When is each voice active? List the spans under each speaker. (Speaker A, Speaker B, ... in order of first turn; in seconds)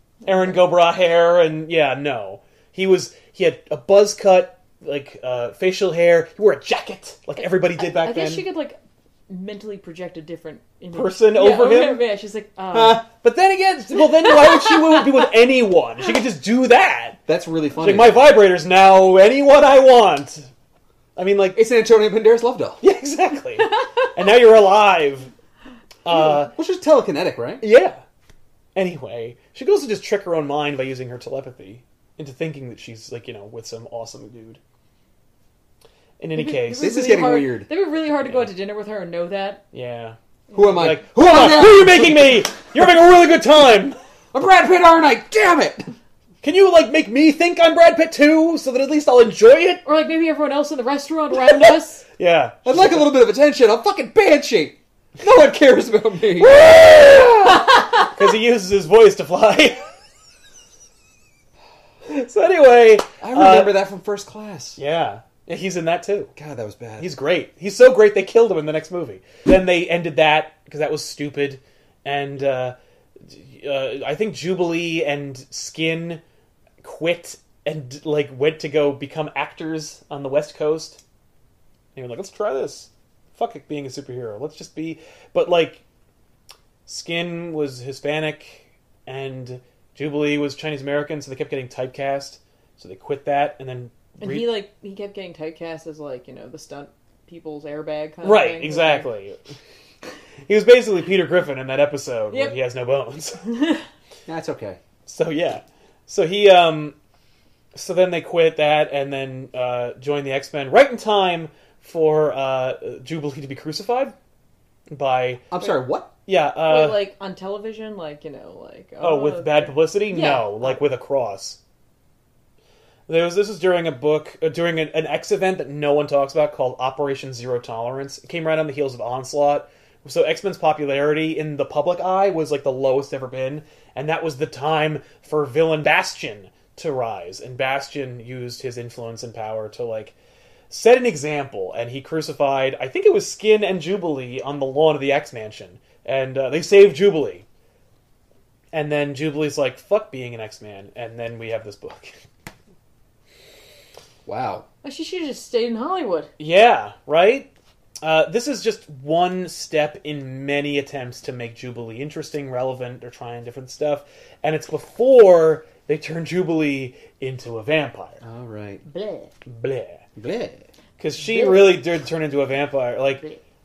Speaker A: 0.2-8.5, 10.9-12.0, 12.7-17.2, 17.8-20.5, 21.2-21.6, 22.8-25.3, 26.0-26.5, 27.6-28.0, 28.8-34.6, 36.2-37.1, 38.2-38.5, 39.7-40.2, 40.7-44.0, 46.4-49.8, 52.2-53.1, 56.4-59.8, 62.1-63.8, 64.8-66.3, 67.0-72.8, 73.3-76.2, 76.8-81.0, 82.0-85.8, 86.9-94.5, 98.2-99.4, 100.5-103.6, 105.1-107.0, 107.7-114.2, 114.9-115.5, 116.3-117.0, 119.0-121.6, 123.1-140.2, 140.7-147.5, 148.7-152.2, 156.4-157.5, 158.0-168.2, 169.5-170.1, 171.0-173.3
Speaker B: 7.4-13.1, 14.2-15.3, 36.4-39.6, 40.5-40.9, 49.9-52.0, 57.4-58.1, 94.2-99.1, 116.7-120.8, 154.8-156.3
Speaker C: 17.3-18.3, 21.6-22.8, 26.1-27.6, 36.8-37.7, 40.5-42.4, 44.3-45.9, 52.6-57.2, 63.2-64.8, 66.4-67.1, 104.3-104.8, 115.5-116.1, 154.3-154.7, 168.2-168.8, 170.2-170.7